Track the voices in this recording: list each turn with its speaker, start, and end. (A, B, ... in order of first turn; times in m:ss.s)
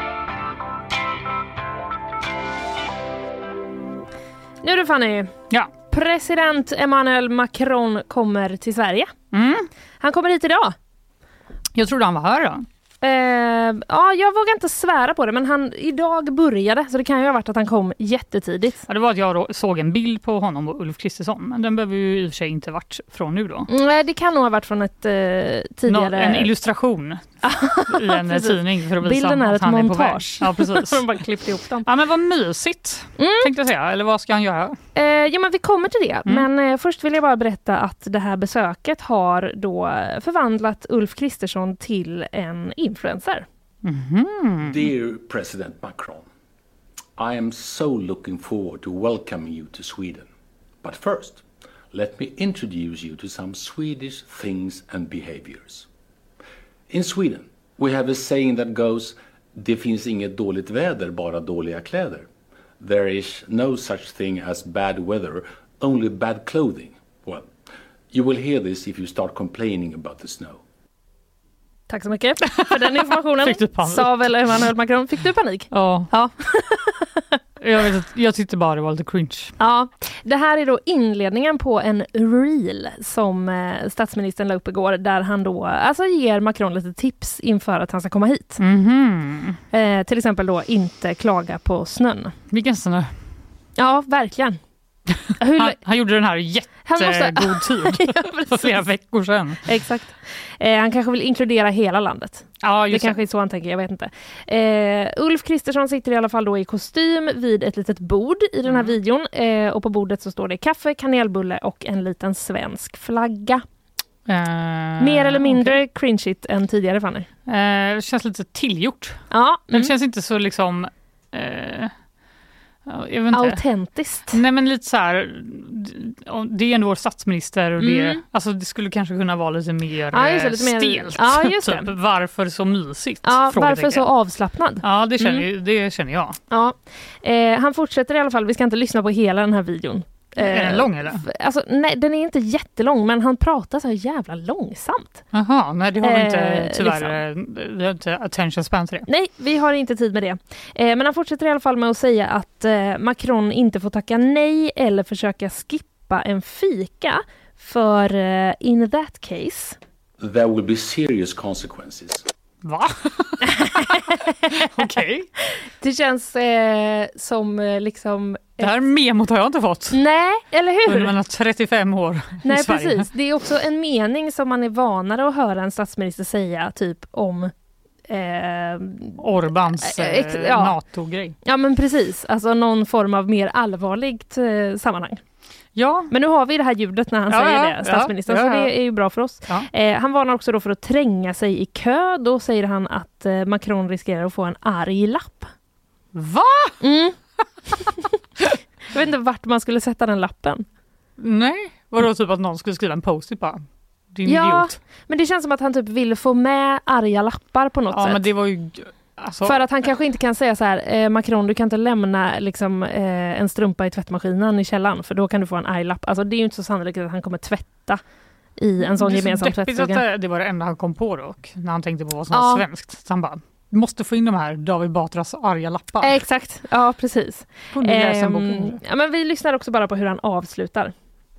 0:04.6-0:05.3 A
0:05.9-0:09.1 A
0:09.3-0:09.7 B
0:10.0-0:10.7 A
0:11.8-0:12.6 B
0:13.0-0:18.8 A
0:18.9-0:23.7 B
0:23.7-0:26.5 A
0:25.9-0:27.2 B
0:27.4-0:31.9 A
0:27.9-0:31.0 B
0:31.8-0:34.8 B
0:33.2-0:33.5 A
0:34.9-0:43.4 A
0:43.8-0:44.9 B
0:44.6-0:46.2 C
0:47.2-0:50.3 C
0:50.8-0:55.8 C
0:56.9-1:02.3 C
1:02.8-1:07.5 C
1:08.1-1:10.6 C
1:11.9-1:17.4 A
1:12.6-1:14.3 B
1:15.7-1:16.1 B
1:17.6-1:19.5 B
1:19.6-1:28.6 A
1:28.6-1:29.6 B
1:29.7-1:32.3 A
1:32.5-1:33.1 B
1:33.8-1:34.6 A
1:35.4-1:35.8 A
1:35.5-1:39.6 B
1:36.8-1:38.8 A
1:39.6-1:53.6 A
1:42.6-1:43.2 B
1:48.6-1:48.9 B
1:54.3-1:55.8 B
1:55.0-1:57.3 A
1:57.5-2:01.9 B
1:59.3-1:59.9 A
2:02.9-2:03.6 B
2:03.3-2:04.4 A
2:04.3-2:14.1 B
2:07.8-2:08.2 A
2:10.1-2:11.9 A
2:13.2-2:15.4 A
2:14.8-2:16.4 B
2:16.5-2:25.2 A
2:20.4-2:21.2 B
2:25.3-2:29.1 B
2:26.0-2:27.2 A
2:29.1-2:39.8 A
2:40.2-2:42.2 C
2:42.6-2:45.3 B
2:43.4-2:44.3 A
2:45.8-2:48.7 A
2:48.6-2:50.0 B
2:49.9-2:51.1 A
2:50.8-2:53.1 B
2:52.4-2:57.5 A
2:58.1-2:59.2 A
2:59.2-3:01.4 B
2:59.8-3:00.8 A
3:01.4-3:05.2 A
3:05.8-3:06.1 B
3:06.1-3:15.5 A
3:07.3-3:08.7 B
3:16.1-3:16.8 B
3:16.8-3:17.2 A
3:17.7-3:20.6 A
3:21.2-3:24.8 B
3:24.2-3:28.2 A
3:27.9-3:29.6 B
3:29.4-3:38.0 A
3:38.6-3:40.0 A
3:38.8-3:46.2 B
3:42.3-3:42.6 A
3:46.0-3:50.9 A
3:47.7-3:48.8 B